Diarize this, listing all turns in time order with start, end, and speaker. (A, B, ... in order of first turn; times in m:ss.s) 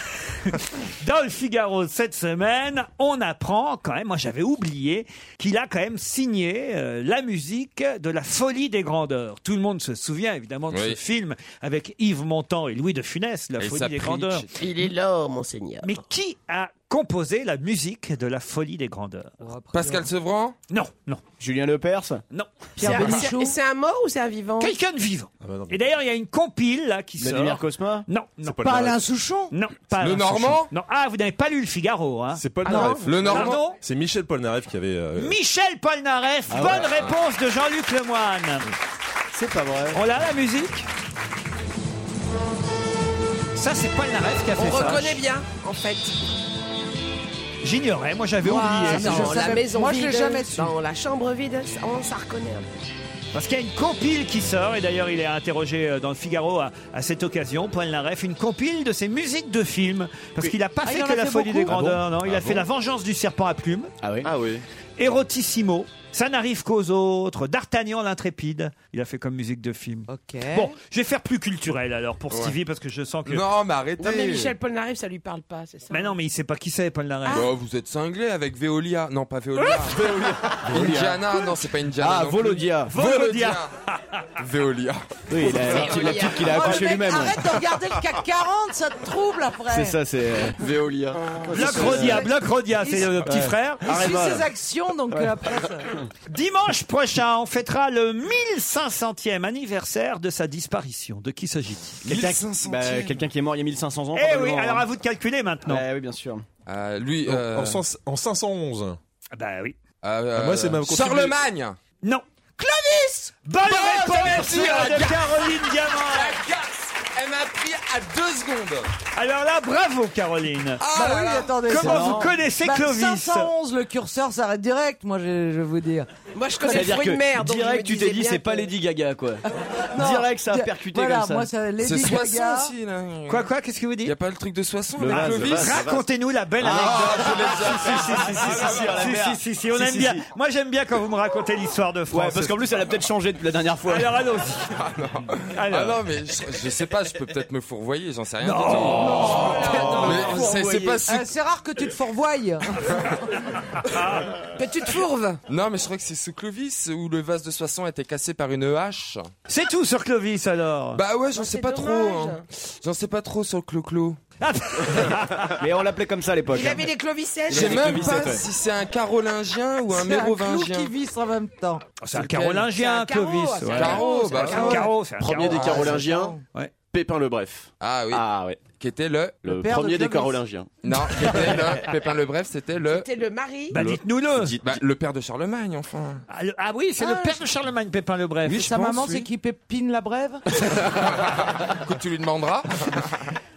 0:00.5-0:14.5 A
0:10.7-0:11.0 B
0:13.6-0:14.5 B
0:14.6-0:15.9 C
0:15.8-0:19.5 A
0:19.4-0:20.1 D
0:19.7-0:20.6 B
0:20.7-0:21.2 A
0:21.4-0:22.2 E
0:22.3-0:23.1 A
0:22.8-0:23.6 D
0:22.8-0:24.8 C
0:22.8-0:23.2 E
0:24.6-0:28.7 A
0:25.4-0:25.8 F
0:27.2-0:28.1 E
0:28.4-0:29.0 F
0:28.5-0:29.5 D
0:29.5-0:33.8 A
0:30.0-0:30.7 B
0:32.3-0:35.4 F
0:32.7-0:33.2 C
0:33.0-0:33.6 B
0:35.2-0:38.7 A
0:36.5-0:36.9 E
0:39.3-0:40.0 E
0:39.9-0:40.9 A
0:43.6-0:45.2 A
0:44.6-0:46.2 C
0:47.6-0:49.5 A
0:48.4-0:50.7 D
0:48.8-0:52.7 C
0:53.3-1:03.9 A
1:00.8-1:01.9 D
1:04.0-1:04.3 E
1:04.2-1:04.6 G
1:05.0-1:13.4 A
1:10.1-1:10.8 D
1:13.3-1:14.5 B
1:14.0-1:16.1 C
1:15.9-1:17.4 A
1:17.3-1:17.5 C
1:17.3-1:23.7 B
1:19.7-1:21.4 E
1:22.0-1:22.9 E
1:22.9-1:24.3 A
1:24.4-1:26.3 B
1:25.3-1:27.5 E
1:25.6-1:27.2 C
1:26.3-1:30.0 D
1:29.7-1:30.6 E
1:30.6-1:31.9 G
1:31.5-1:32.3 E
1:31.5-1:34.2 A
1:31.7-1:33.2 D
1:33.2-1:34.5 E
1:33.8-1:35.9 D
1:36.3-1:42.3 A
1:42.0-1:44.9 E
1:42.1-1:43.1 B
1:44.2-1:45.8 A
1:45.7-1:46.4 E
1:46.7-1:47.8 B
1:47.3-1:49.0 F
1:49.3-1:49.8 A
1:50.0-1:51.8 B
1:50.3-1:51.4 F
1:52.6-1:53.3 D
1:53.4-1:56.4 A
1:53.6-1:58.9 B
1:59.2-2:00.8 A
2:00.8-2:01.7 B
2:00.9-2:06.1 D
2:01.7-2:03.5 A
2:01.8-2:02.3 E
2:06.3-2:08.7 C
2:06.6-2:07.0 D
2:06.7-2:09.4 E
2:09.9-2:12.7 D
2:10.0-2:11.5 E
2:11.8-2:13.5 B
2:13.3-2:14.1 A
2:14.0-2:15.9 B
2:15.0-2:15.9 E
2:15.1-2:22.6 A
2:15.5-2:16.0 G
2:16.6-2:20.3 E
2:16.6-2:18.9 B
2:22.1-2:24.2 E
2:23.9-2:24.7 A
2:24.8-2:31.3 B
2:25.5-2:26.0 A
2:28.4-2:30.3 A
2:29.0-2:31.0 E
2:31.0-2:33.2 D
2:34.6-2:35.4 C
2:35.5-2:39.3 B
2:39.5-2:41.0 A
2:41.0-2:44.2 B
2:41.4-2:42.4 C
2:44.4-2:45.6 A
2:45.6-2:46.9 E
2:46.5-2:48.3 C
2:47.5-2:48.5 E
2:47.5-2:50.9 B
2:49.9-2:52.0 D
2:52.0-2:55.6 A
2:52.6-2:54.8 C
2:53.8-2:54.9 B
2:54.3-2:56.4 D
2:55.1-2:56.4 G
2:55.5-2:55.9 B
2:56.9-2:57.7 G
2:57.8-2:59.5 B
2:58.1-2:58.6 E
2:59.4-3:00.8 G
2:59.5-3:00.4 D
3:00.8-3:03.1 B
3:02.8-3:03.8 C
3:03.7-3:04.6 A
3:04.3-3:04.8 G
3:04.6-3:06.2 B
3:06.3-3:08.7 A
3:07.0-3:07.4 D
3:08.5-3:09.3 B
3:08.5-3:10.4 D
3:10.6-3:13.3 B